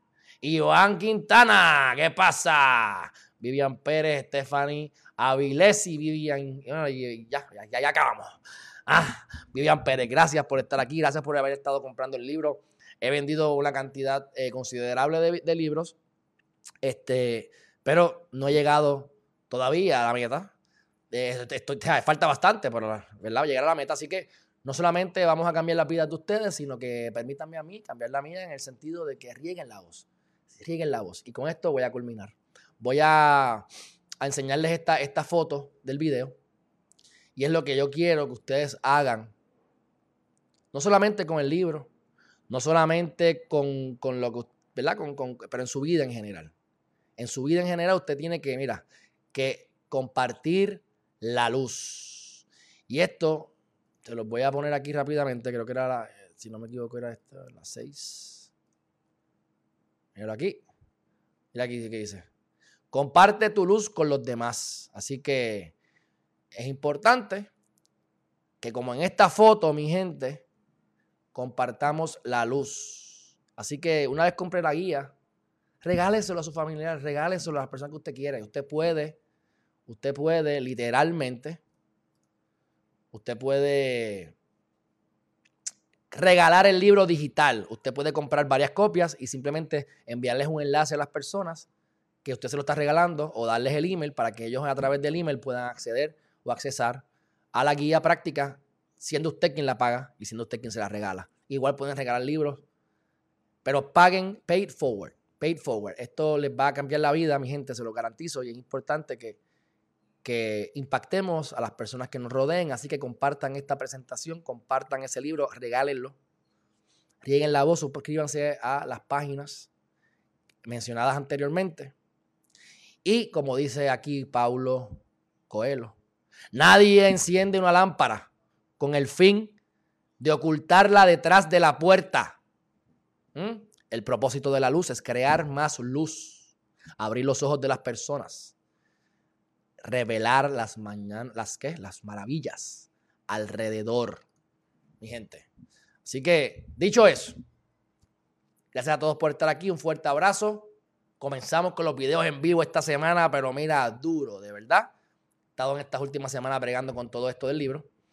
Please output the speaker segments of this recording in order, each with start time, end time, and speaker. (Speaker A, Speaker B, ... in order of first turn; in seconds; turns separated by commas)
Speaker A: 0.4-15.9, Speaker A: 16.8-20.5, Speaker A: 21.1-33.7, Speaker A: 34.2-36.3, Speaker A: 37.4-39.3, Speaker A: 40.7-41.9, Speaker A: 42.5-46.5, Speaker A: 47.2-53.5, Speaker A: 54.0-58.5, Speaker A: 60.1-60.6, Speaker A: 61.5-62.3, Speaker A: 62.9-65.7, Speaker A: 66.5-67.5, Speaker A: 68.6-70.5, Speaker A: 71.3-75.1, Speaker A: 75.8-79.2, Speaker A: 79.9-81.6, Speaker A: 83.1-84.3, Speaker A: 86.1-91.7, Speaker A: 92.2-102.6, Speaker A: 103.6-109.4, Speaker A: 110.2-116.2, Speaker A: 117.2-119.7, Speaker A: 120.6-121.9, Speaker A: 123.0-126.0, Speaker A: 126.5-129.6, Speaker A: 130.2-132.4, Speaker A: 133.3-138.6, Speaker A: 139.8-144.2, Speaker A: 145.0-145.5, Speaker A: 146.0-147.4, Speaker A: 148.7-154.9, Speaker A: 155.6-157.9